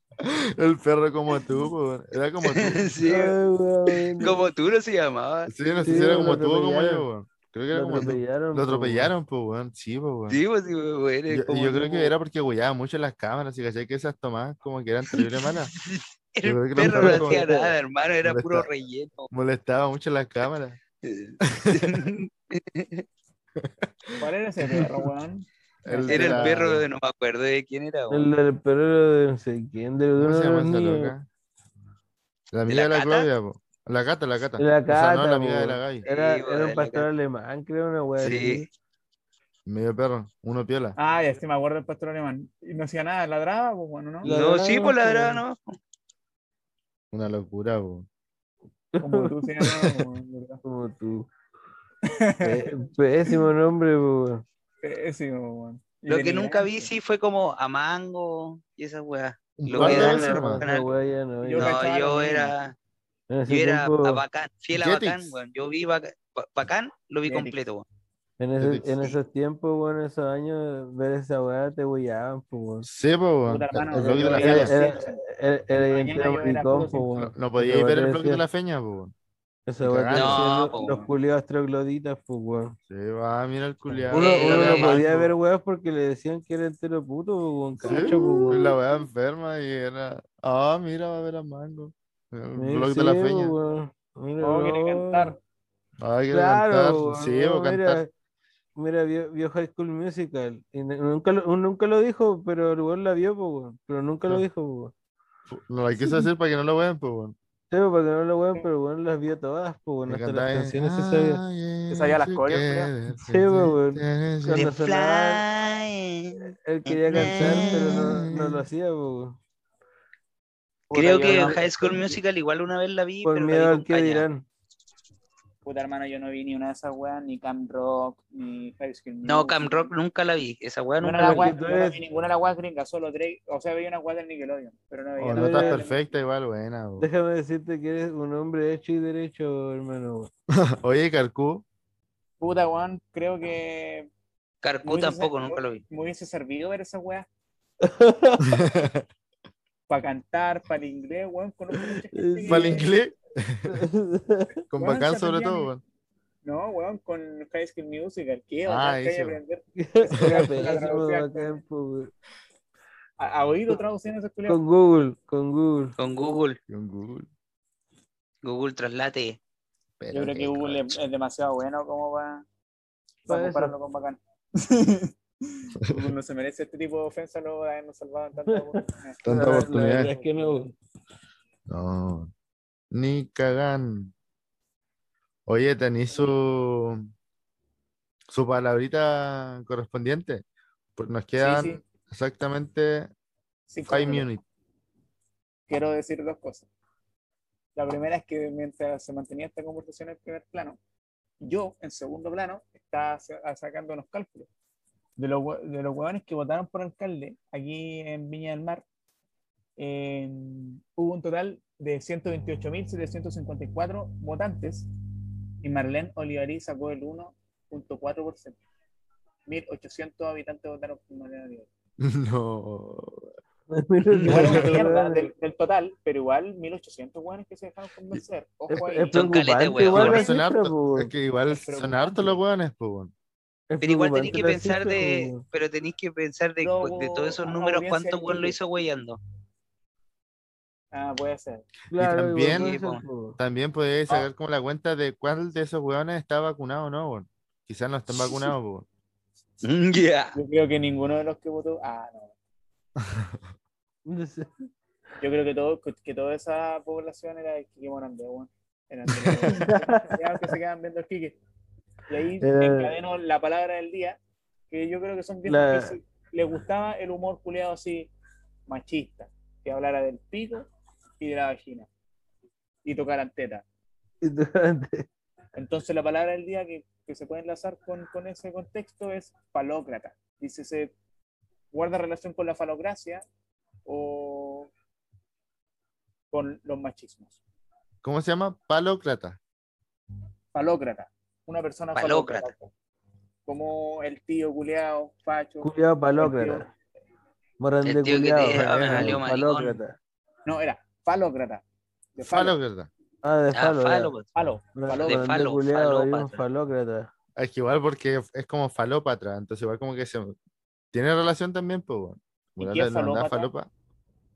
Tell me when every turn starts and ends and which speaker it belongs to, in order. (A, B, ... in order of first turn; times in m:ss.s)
0:00.2-0:03.0 A
0:02.4-0:03.4 B
0:03.0-0:04.4 C
0:04.2-0:05.5 B
0:05.5-0:10.4 A
0:05.8-0:07.1 C
0:07.7-0:09.1 C
0:10.3-0:12.2 B
0:11.3-0:15.7 A
0:15.1-0:19.3 B
0:16.4-0:17.5 A
0:16.8-0:17.8 C
0:18.2-0:18.7 A
0:19.3-0:20.8 A
0:21.0-0:23.0 B
0:21.5-0:22.1 A
0:23.6-0:24.2 A
0:24.2-0:26.6 D
0:25.8-0:26.8 A
0:26.1-0:28.3 B
0:28.1-0:31.1 C
0:30.2-0:31.3 A
0:32.5-0:36.0 A
0:32.7-0:33.3 B
0:34.6-0:38.7 C
0:36.0-0:37.1 B
0:38.2-0:38.7 B
0:39.7-0:41.0 A
0:41.0-0:44.3 D
0:44.2-0:45.4 C
0:44.2-0:45.8 B
0:47.1-0:48.1 A
0:48.9-0:49.9 C
0:49.0-0:50.6 D
0:50.6-0:51.3 C
0:52.1-0:52.7 D
0:52.4-0:54.4 C
0:54.8-0:56.9 D
0:56.1-1:00.9 B
0:59.6-1:00.6 A
0:59.7-1:01.8 C
1:01.4-1:02.5 D
1:01.6-1:02.8 B
1:03.3-1:04.2 C
1:03.5-1:07.8 B
1:04.7-1:05.3 A
1:07.3-1:07.6 D
1:08.4-1:12.9 C
1:08.6-1:09.0 A
1:12.8-1:14.8 A
1:13.5-1:15.2 D
1:13.9-1:18.4 C
1:15.8-1:17.1 D
1:17.2-1:19.1 A
1:19.7-1:22.8 C
1:19.8-1:20.5 A
1:20.1-1:21.1 B
1:20.8-1:21.1 D
1:22.9-1:25.2 A
1:24.1-1:28.8 C
1:24.1-1:25.0 B
1:27.8-1:33.6 A
1:27.8-1:28.6 D
1:32.6-1:35.4 C
1:34.4-1:35.4 D
1:36.0-1:38.0 A
1:36.3-1:38.1 C
1:38.8-1:44.9 C
1:45.5-1:47.4 A
1:46.0-1:46.3 C
1:47.7-1:51.4 C
1:50.1-1:54.7 A
1:51.9-1:52.9 D
1:53.1-1:55.5 C
1:54.5-1:58.0 B
1:56.4-1:59.4 C
1:57.1-1:58.7 A
2:00.9-2:01.7 D
2:00.9-2:04.2 B
2:01.2-2:02.1 C
2:03.2-2:04.4 C
2:05.6-2:09.9 D
2:09.2-2:11.5 B
2:11.0-2:16.2 D
2:11.2-2:12.0 C
2:15.2-2:17.1 A
2:15.3-2:15.9 C
2:17.0-2:20.3 C
2:20.5-2:21.6 A
2:22.4-2:24.1 D
2:24.6-2:25.8 B
2:24.8-2:27.3 D
2:27.8-2:28.6 C
2:28.4-2:29.1 A
2:29.9-2:32.9 D
2:31.8-2:32.9 C
2:32.5-2:33.8 A
2:33.7-2:34.6 C
2:34.7-2:35.8 A
2:34.8-2:35.7 D
2:36.4-2:41.6 D
2:38.7-2:39.4 A
2:39.8-2:42.1 C
2:43.2-2:44.6 D
2:44.5-2:46.0 C
2:46.0-2:46.6 B
2:46.7-2:47.3 A
2:48.4-2:49.4 B
2:50.0-2:50.9 A
2:50.1-2:52.4 D
2:53.3-2:59.2 D
2:53.3-2:53.7 C
2:58.5-3:00.8 C
2:59.2-3:00.1 A
3:01.7-3:02.3 A
3:02.9-3:04.1 A
3:05.5-3:07.1 A
3:08.3-3:10.4 A
3:11.0-3:13.1 A
3:11.4-3:11.8 D
3:13.7-3:14.3 D
3:13.9-3:14.4 A
3:15.7-3:16.7 D
3:17.8-3:20.8 D
3:21.4-3:24.5 D
3:25.2-3:28.8 D
3:29.8-3:34.9 D
3:35.6-3:38.6 D
3:39.5-3:41.7 D
3:42.0-3:43.3 A
3:43.7-3:45.3 C
3:44.2-3:50.3 D
3:44.3-3:44.8 A
3:48.7-3:51.1 C
3:49.1-3:50.3 B
3:50.0-3:53.1 A
3:51.5-3:52.4 D
3:53.7-3:55.4 C
3:53.8-3:59.2 B
3:56.6-3:58.6 D
4:00.9-4:01.7 D
4:01.9-4:03.4 C
4:02.0-4:02.7 A
4:02.5-4:03.0 B
4:03.4-4:08.9 A
4:08.2-4:08.4 B
4:09.6-4:10.4 B
4:10.4-4:12.3 D
4:13.0-4:13.4 A
4:14.1-4:14.7 C
4:15.2-4:21.4 D
4:19.1-4:19.6 A
4:19.5-4:20.2 C
4:22.1-4:24.2 D
4:22.4-4:23.0 C
4:24.7-4:28.1 D
4:25.5-4:26.0 C
4:28.7-4:30.7 D
4:31.2-4:31.9 D
4:32.8-4:33.6 D
4:34.2-4:35.1 C
4:35.6-4:40.9 D
4:41.7-4:43.2 D
4:43.9-4:44.7 D
4:46.3-4:47.3 D
4:48.0-4:49.4 A
4:50.5-4:52.7 D
4:52.0-4:52.5 B
4:53.5-4:56.7 D
4:55.6-4:56.7 C
4:57.6-5:00.0 C
4:57.8-4:59.8 B
4:58.6-4:59.2 A
5:00.5-5:01.6 D
5:02.2-5:02.6 D
5:02.2-5:02.9 A
5:03.2-5:04.2 C
5:03.5-5:04.3 B
5:04.4-5:05.3 D
5:04.8-5:07.1 C
5:05.0-5:06.4 B
5:07.4-5:10.4 A
5:10.9-5:13.7 A
5:12.6-5:13.5 D